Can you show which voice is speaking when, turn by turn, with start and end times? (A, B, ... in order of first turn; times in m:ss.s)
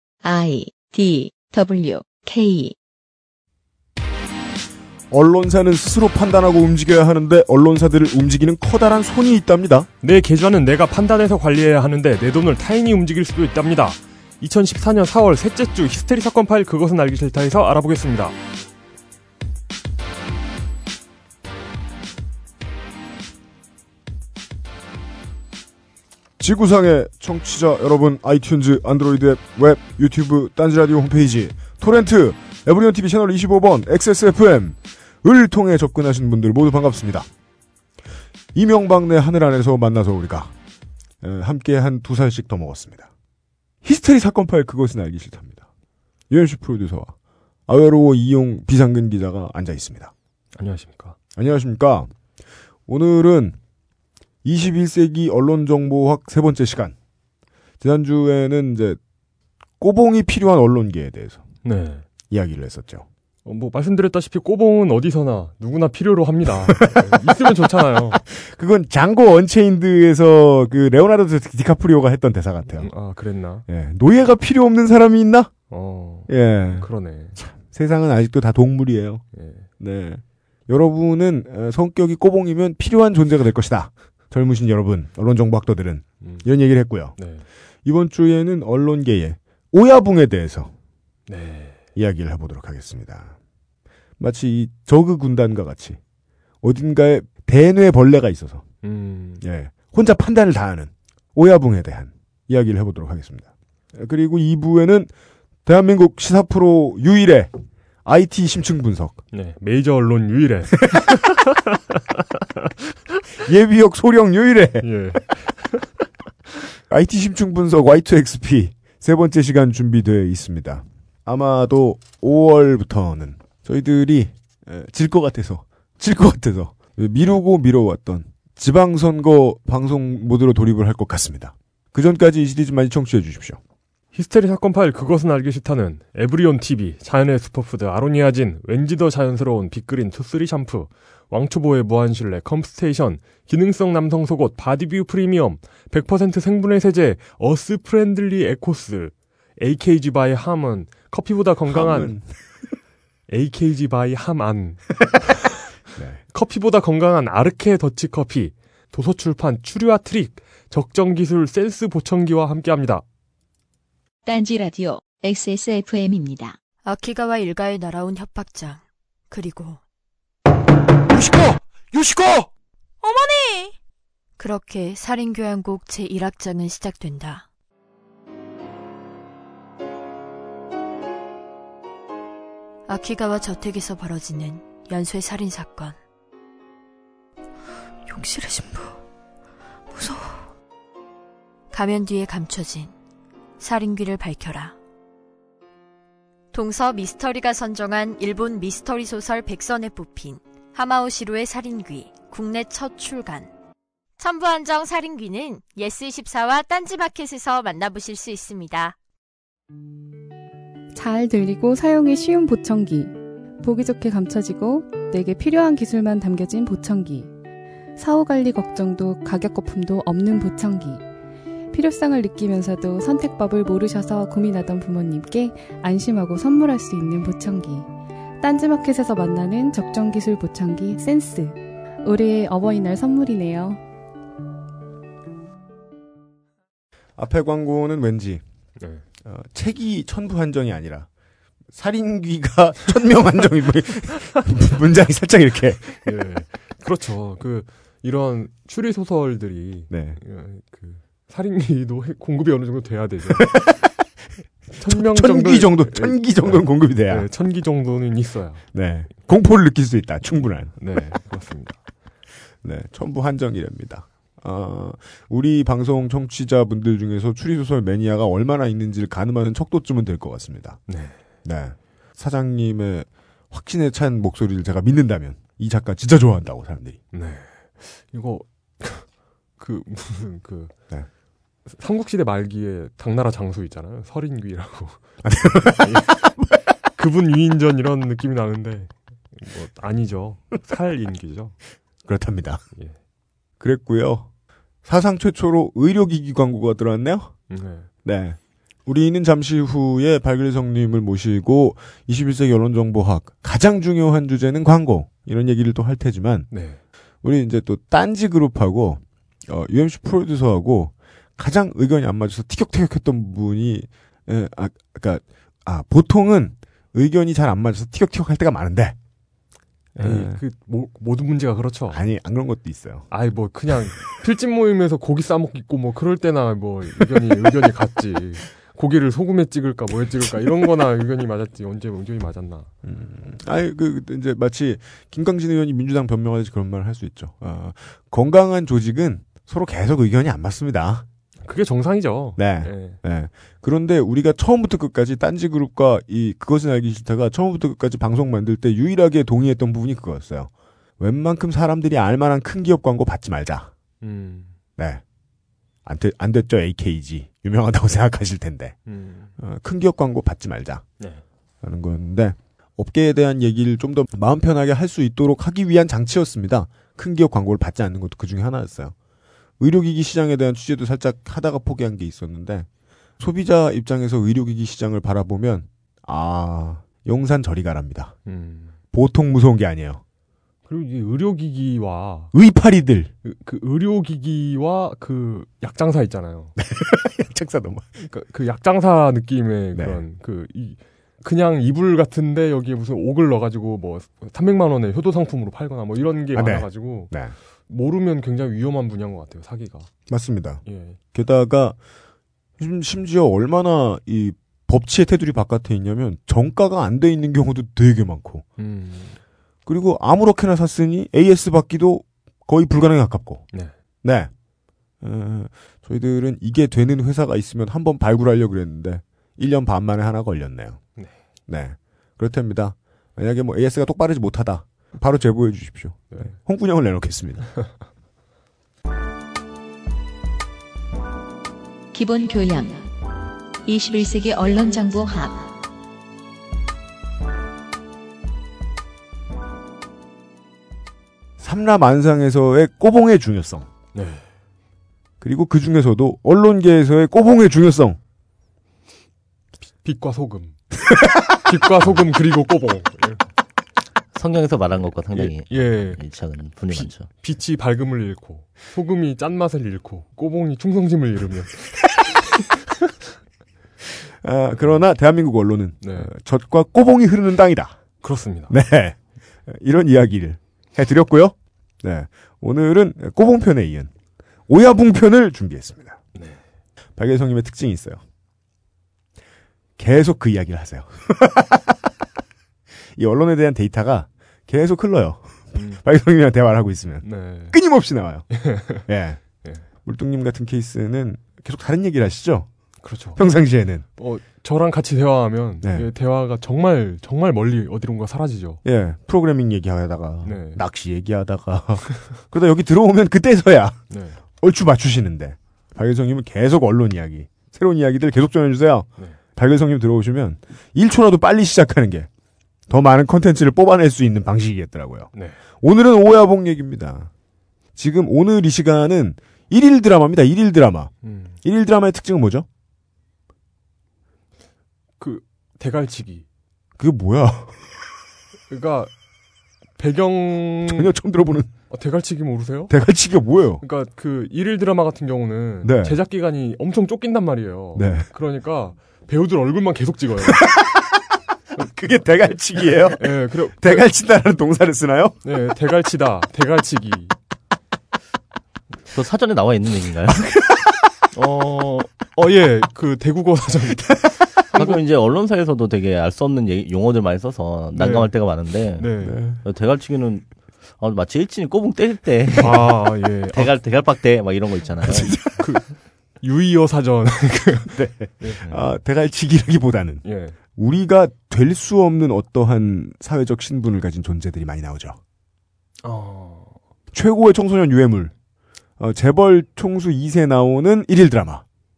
0:00.2-0:02.8 A
0:05.1-0:09.9 B
0:10.0-0:18.4 C
0:26.4-0:37.3 B
0:38.5-0:40.5 B
0:41.2-0:43.1 B
0:43.8-0:45.6 B
0:46.3-0:47.1 B
0:47.7-0:50.1 B
0:50.6-0:51.2 C
0:51.4-0:52.1 B
0:52.9-0:53.6 B
0:54.4-0:56.9 B
0:57.8-0:59.0 B
0:59.8-1:01.4 B
1:01.6-1:02.0 C
1:02.3-1:03.0 B
1:03.4-1:08.2 C
1:06.6-1:07.2 B
1:08.3-1:12.9 B
1:12.7-1:13.6 C
1:13.7-1:15.5 B
1:15.7-1:17.4 C
1:16.3-1:19.2 B
1:19.3-1:19.6 C
1:19.8-1:27.2 B
1:26.2-1:26.5 C
1:27.2-1:27.4 C
1:27.8-1:30.7 B
1:31.3-1:31.8 C
1:32.0-1:33.3 B
1:34.2-1:36.0 B
1:36.6-1:38.6 B
1:38.8-1:39.4 C
1:39.4-1:45.1 B
1:45.6-1:47.5 B
1:48.0-1:49.2 B
1:49.3-1:51.8 C
1:53.4-1:54.9 B
1:54.8-1:55.9 C
1:56.9-2:13.6 B
2:14.1-2:32.1 C
2:31.7-2:32.3 B
2:33.3-2:35.2 C
2:36.3-2:43.0 C
2:44.2-2:46.6 A
2:46.8-2:49.8 D
2:53.0-2:53.7 D
2:54.4-2:57.4 D
3:02.9-3:06.0 D
3:08.1-3:09.0 D
3:09.9-3:10.3 D
3:11.7-3:12.9 D
3:13.6-3:14.8 D
3:16.5-3:23.5 D
3:24.2-3:29.0 D
3:30.9-3:37.3 E
3:38.0-3:41.0 E
3:41.7-3:47.9 E
3:48.4-3:53.8 E
3:57.2-3:58.4 B
3:59.2-4:01.1 B
4:01.7-4:06.0 B
4:06.0-4:13.7 C
4:09.9-4:10.2 B
4:13.4-4:13.7 B
4:14.8-4:18.6 C
4:14.8-4:17.3 B
4:18.7-4:21.0 B
4:20.8-4:21.8 C
4:22.6-4:30.8 B
4:30.9-4:31.1 C
4:31.4-4:37.0 B
4:37.1-4:40.7 C
4:41.7-4:45.1 C
4:45.2-4:46.4 B
4:45.8-4:46.3 C
4:46.9-4:51.6 C
4:52.0-4:52.6 B
4:53.6-4:54.3 B
4:54.8-4:57.4 B
4:57.5-4:57.9 C
4:58.0-5:06.5 B
5:06.5-5:06.8 C
5:07.2-5:19.0 B
5:20.0-5:20.4 B
5:20.0-5:22.0 C
5:21.9-5:23.1 B
5:23.1-5:32.7 C
5:32.8-5:41.0 B
5:41.4-5:43.0 C
5:42.4-5:53.7 B
5:54.0-5:54.5 C
5:54.8-5:55.0 B
5:55.8-5:58.7 B
5:58.9-5:59.3 C
5:59.4-6:00.8 B
6:01.6-6:08.9 B
6:09.6-6:12.7 B
6:13.2-6:18.1 B
6:18.2-6:18.7 C
6:18.9-6:20.0 B
6:20.6-6:22.3 C
6:22.3-6:23.1 B
6:23.2-6:26.5 C
6:26.6-6:27.8 B
6:28.0-6:37.2 C
6:29.7-6:30.0 B
6:36.3-6:37.3 B
6:37.7-6:39.9 C
6:40.1-6:40.6 B
6:40.6-6:41.0 C
6:41.1-6:41.8 B
6:42.6-6:48.4 B
6:48.6-6:49.2 C
6:49.6-6:53.5 B
6:54.0-6:54.3 B
6:55.0-7:00.8 B
7:01.5-7:07.5 B
7:11.9-7:12.8 A
7:13.6-7:15.5 A
7:21.4-7:23.7 B
7:23.9-7:24.2 C
7:25.2-7:28.0 B
7:29.8-7:30.6 C
7:31.4-7:33.3 C
7:34.1-7:37.1 F
7:35.1-7:36.0 C
7:36.7-7:42.5 C
7:44.2-7:47.8 B
7:45.8-7:46.1 C
7:48.0-7:48.5 C
7:48.5-7:53.9 B
7:54.5-7:56.0 B
7:56.1-7:56.4 C
7:57.0-7:58.0 B
7:59.8-8:01.8 B
8:03.0-8:09.2 B
8:05.6-8:05.8 C
8:07.0-8:07.6 C
8:08.3-8:08.8 C
8:09.7-8:12.5 B
8:12.8-8:13.2 C
8:13.1-8:13.8 B
8:14.0-8:18.6 C
8:15.6-8:15.9 B
8:18.6-8:23.8 B
8:20.2-8:20.6 C
8:23.9-8:24.2 C
8:24.4-8:32.1 B
8:32.7-8:35.1 B
8:35.1-8:35.4 C
8:35.6-8:37.1 B
8:37.8-8:40.9 B
8:41.0-8:41.4 C
8:41.4-8:42.4 B
8:45.0-8:46.2 C
8:46.8-8:47.6 B
8:48.5-8:48.9 C
8:49.8-8:50.9 C
8:50.6-8:51.5 B
8:51.7-8:52.7 C
8:52.7-8:53.6 B
8:53.6-9:00.5 C
8:55.6-8:56.0 B
8:57.7-8:58.1 B
9:00.2-9:00.8 B
9:01.6-9:05.2 B
9:02.9-9:03.8 C
9:05.2-9:07.1 C
9:08.9-9:10.2 F
9:10.3-9:10.7 B
9:11.1-9:14.8 C
9:14.5-9:20.2 F
9:17.7-9:18.1 C
9:18.8-9:19.2 C
9:19.0-9:19.4 B
9:20.8-9:25.1 F
9:22.4-9:23.5 C
9:24.8-9:25.4 B
9:25.4-9:28.4 C
9:27.7-9:30.0 B
9:30.0-9:30.4 C
9:30.5-9:35.0 B
9:35.8-9:36.6 C
9:36.9-9:38.1 B
9:38.8-9:41.4 B